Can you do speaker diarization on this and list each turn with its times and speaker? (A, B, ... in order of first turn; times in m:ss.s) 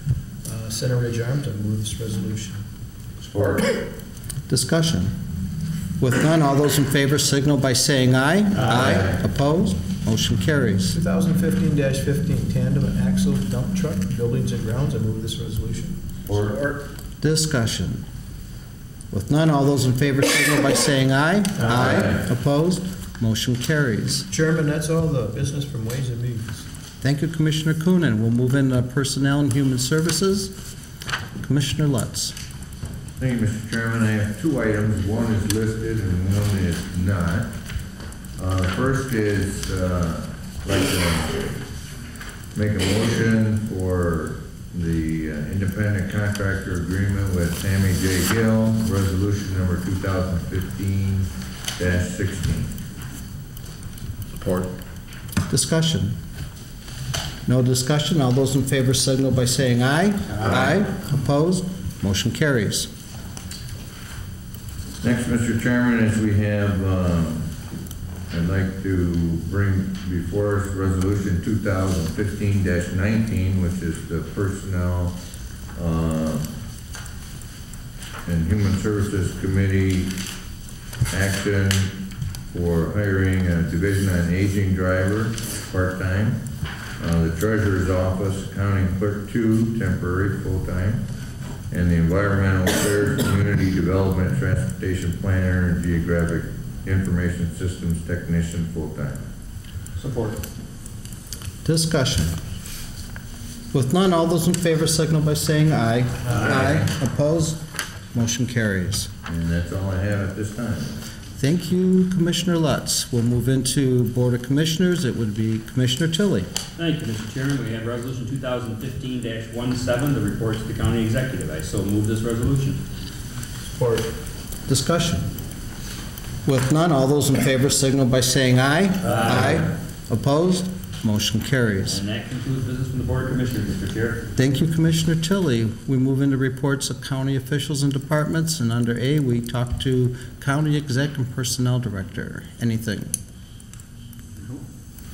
0:00.4-0:02.6 A
0:03.3-0:03.6 A
0:04.5-0:05.1 B
0:06.0-0:11.0 B
0:10.9-0:16.8 A
0:16.3-0:16.5 C
0:17.2-0:18.0 B
0:19.1-0:24.3 B
0:21.6-0:21.9 A
0:21.7-0:22.1 C
0:24.3-0:26.7 A
0:27.0-0:30.5 B
0:31.4-0:32.4 B
0:33.2-0:37.5 C
0:38.4-0:41.5 C
0:42.5-0:52.7 C
0:55.5-0:56.2 B
0:57.5-1:02.9 B
1:05.0-1:07.5 C
1:08.3-1:15.1 C
1:15.8-1:16.4 C
1:18.3-1:20.1 C
1:21.1-1:21.9 C
1:22.5-1:26.4 C
1:27.0-1:31.0 C
1:31.7-1:39.2 C
1:40.0-1:40.4 A
1:41.6-1:42.4 B
1:43.7-1:47.6 B
1:46.3-1:46.6 A
1:46.4-1:46.9 C
1:48.1-1:49.1 B
1:49.3-1:51.0 C
1:51.4-1:56.5 B
1:56.8-2:02.8 D
2:03.8-2:04.1 A
2:04.7-2:05.3 B
2:06.4-2:12.0 B
2:09.1-2:09.6 D
2:11.9-2:14.3 D
2:14.4-2:23.1 B